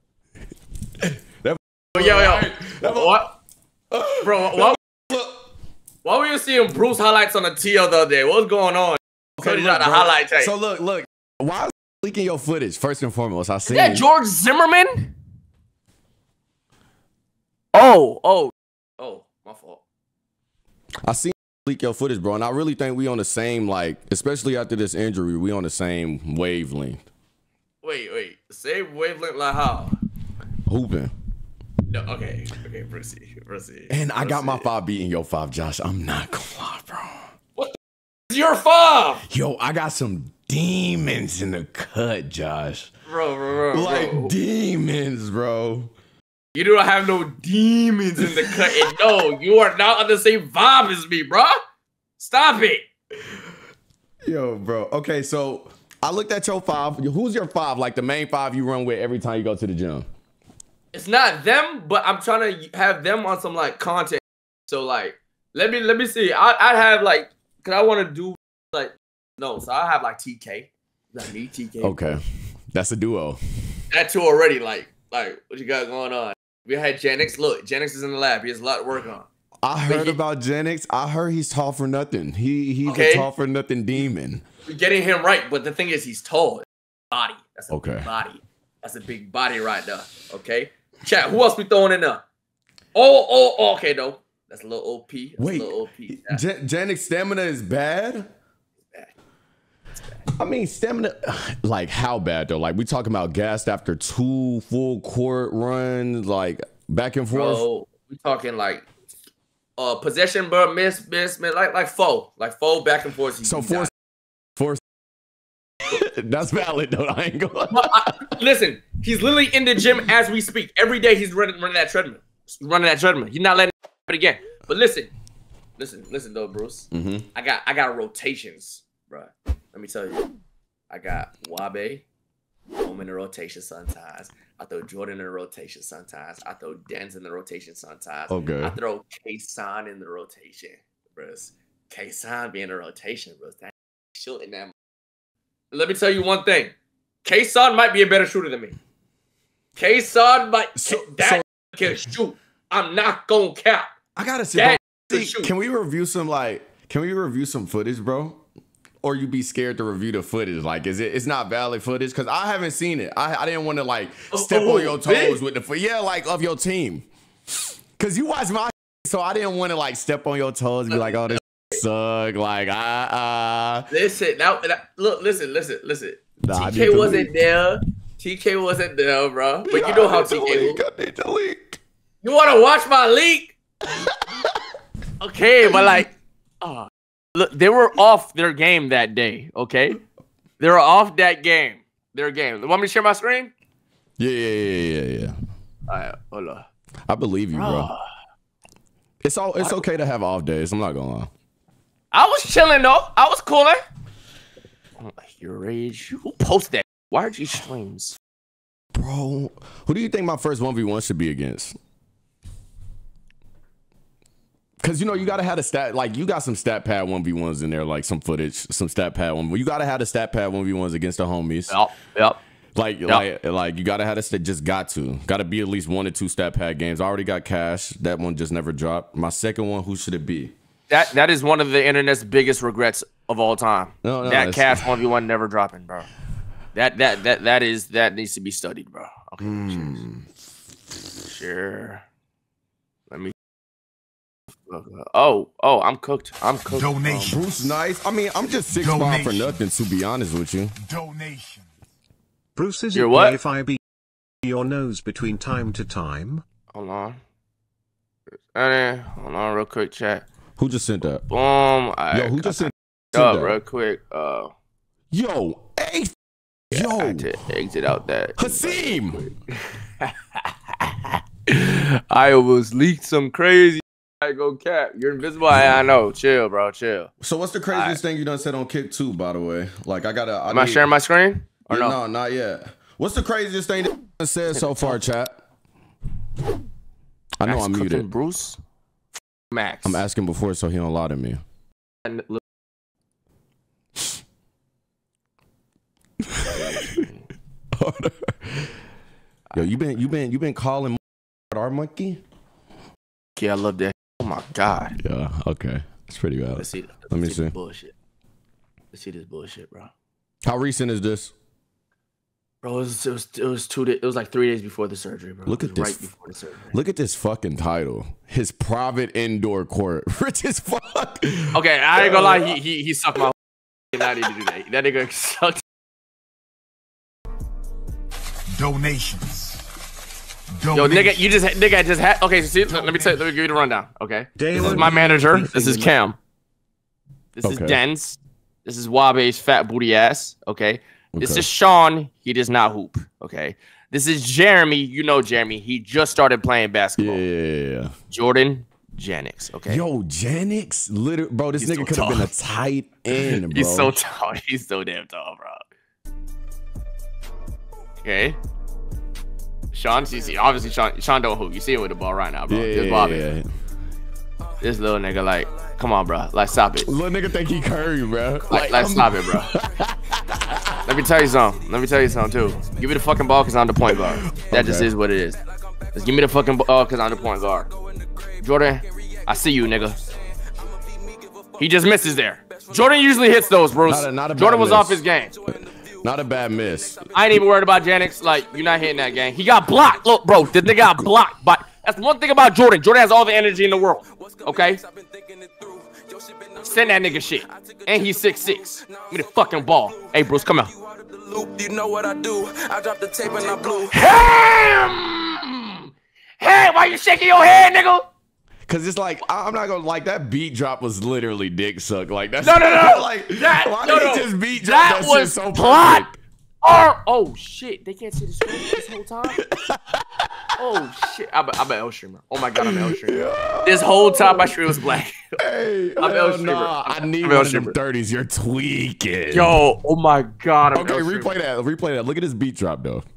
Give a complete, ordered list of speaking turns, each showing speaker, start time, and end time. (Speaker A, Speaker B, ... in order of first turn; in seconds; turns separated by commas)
Speaker A: 1.0-3.1, Speaker B: 1.9-3.4, Speaker A: 3.9-5.4, Speaker B: 4.2-4.8, Speaker B: 6.0-10.5, Speaker A: 9.4-14.1, Speaker B: 13.7-15.1, Speaker B: 17.7-19.8, Speaker A: 21.0-27.0, Speaker B: 27.8-29.9, Speaker A: 30.7-31.1, Speaker B: 31.9-34.7, Speaker A: 33.9-37.2, Speaker B: 38.3-39.2, Speaker A: 39.3-42.9, Speaker B: 43.1-44.3, Speaker A: 43.7-45.9, Speaker B: 46.5-51.5, Speaker A: 48.2-49.3, Speaker B: 52.2-52.9, Speaker A: 54.2-60.1, Speaker B: 60.9-72.2, Speaker A: 71.8-73.4, Speaker B: 73.9-79.3, Speaker A: 79.6-84.4, Speaker B: 79.9-80.2, Speaker B: 82.8-83.3, Speaker B: 84.7-92.2, Speaker A: 87.7-88.1, Speaker B: 92.9-96.4, Speaker A: 95.4-98.3, Speaker B: 98.9-99.1, Speaker A: 100.4-107.6, Speaker B: 107.3-108.9, Speaker B: 109.8-113.9, Speaker A: 113.4-113.9, Speaker A: 114.5-114.8, Speaker A: 115.8-118.3, Speaker B: 117.7-125.1, Speaker B: 125.8-130.3, Speaker A: 126.9-127.3, Speaker B: 130.9-132.0, Speaker B: 132.8-144.7, Speaker A: 138.3-138.8, Speaker B: 145.7-148.8, Speaker B: 149.8-153.9, Speaker A: 150.8-151.4, Speaker A: 154.2-158.4, Speaker B: 154.5-155.5, Speaker A: 159.0-167.1, Speaker B: 164.3-165.4, Speaker A: 168.0-173.9, Speaker B: 170.9-171.4, Speaker B: 173.9-180.8, Speaker A: 176.4-177.3, Speaker A: 179.7-181.8, Speaker B: 182.2-183.5, Speaker A: 183.9-184.6, Speaker B: 185.2-190.0, Speaker A: 185.6-186.0, Speaker B: 190.6-193.5, Speaker A: 194.2-195.3, Speaker B: 195.9-196.7, Speaker A: 197.1-197.9, Speaker B: 197.6-198.0, Speaker A: 199.2-201.3, Speaker B: 202.1-203.8, Speaker B: 205.0-208.2, Speaker A: 208.9-211.8, Speaker A: 214.8-221.8, Speaker B: 221.7-222.4, Speaker A: 222.7-230.5, Speaker B: 230.9-236.1, Speaker A: 234.0-234.9, Speaker B: 236.7-240.0, Speaker A: 239.4-240.2, Speaker B: 241.2-242.0, Speaker B: 244.7-247.4, Speaker C: 246.7-247.7, Speaker A: 247.2-250.8, Speaker C: 248.8-249.6, Speaker C: 250.8-251.7, Speaker C: 252.6-253.8, Speaker B: 252.9-253.4, Speaker C: 254.4-256.4, Speaker B: 256.7-257.2, Speaker B: 258.5-260.2, Speaker A: 260.6-261.2, Speaker B: 261.3-264.5, Speaker A: 262.1-263.6, Speaker A: 265.1-266.1, Speaker A: 266.7-267.3, Speaker B: 266.7-270.4, Speaker A: 268.4-269.3, Speaker B: 271.5-277.1, Speaker A: 277.2-280.8, Speaker B: 277.7-278.0, Speaker B: 280.5-282.0, Speaker A: 281.7-285.4, Speaker B: 284.5-285.0, Speaker A: 287.4-288.1, Speaker B: 287.4-288.6, Speaker B: 289.5-290.0, Speaker A: 289.8-291.4, Speaker B: 292.0-292.4, Speaker A: 296.2-297.1, Speaker B: 296.5-297.1, Speaker A: 297.7-298.7, Speaker A: 299.5-302.2, Speaker B: 303.4-304.9, Speaker A: 305.0-307.5, Speaker B: 306.6-307.9, Speaker B: 308.9-309.9, Speaker A: 310.4-311.3, Speaker B: 312.6-316.8, Speaker A: 315.4-316.1, Speaker A: 316.7-322.6, Speaker B: 321.5-323.4, Speaker B: 323.9-325.6, Speaker C: 328.5-329.6, Speaker C: 330.5-331.3, Speaker B: 330.7-336.2, Speaker C: 332.7-333.1, Speaker C: 334.4-335.9, Speaker A: 334.5-335.0, Speaker B: 337.4-347.2, Speaker A: 337.4-337.8, Speaker A: 341.1-341.5, Speaker A: 347.0-347.9, Speaker B: 348.1-349.8, Speaker A: 349.7-353.9, Speaker B: 351.6-352.3, Speaker B: 353.1-355.6, Speaker B: 358.0-358.4, Speaker B: 359.7-363.2, Speaker A: 362.5-363.4, Speaker B: 364.6-366.9, Speaker D: 365.4-365.8, Speaker A: 366.8-370.9, Speaker B: 368.5-369.5, Speaker B: 370.9-375.4, Speaker D: 372.3-373.2, Speaker A: 373.9-374.9, Speaker D: 375.1-384.0, Speaker B: 375.9-377.7, Speaker B: 378.4-380.0, Speaker B: 381.6-385.3, Speaker A: 383.9-385.0, Speaker D: 385.1-390.1, Speaker A: 386.0-387.0, Speaker B: 387.1-394.8, Speaker D: 393.5-404.0, Speaker B: 396.6-400.7, Speaker B: 403.9-405.9, Speaker B: 406.4-408.1, Speaker A: 408.7-416.2, Speaker B: 412.4-416.0, Speaker B: 416.6-419.4, Speaker A: 419.4-420.3, Speaker B: 420.6-425.2, Speaker A: 422.6-424.7, Speaker A: 425.4-429.6, Speaker B: 426.0-427.8, Speaker B: 429.3-431.3, Speaker A: 430.7-433.0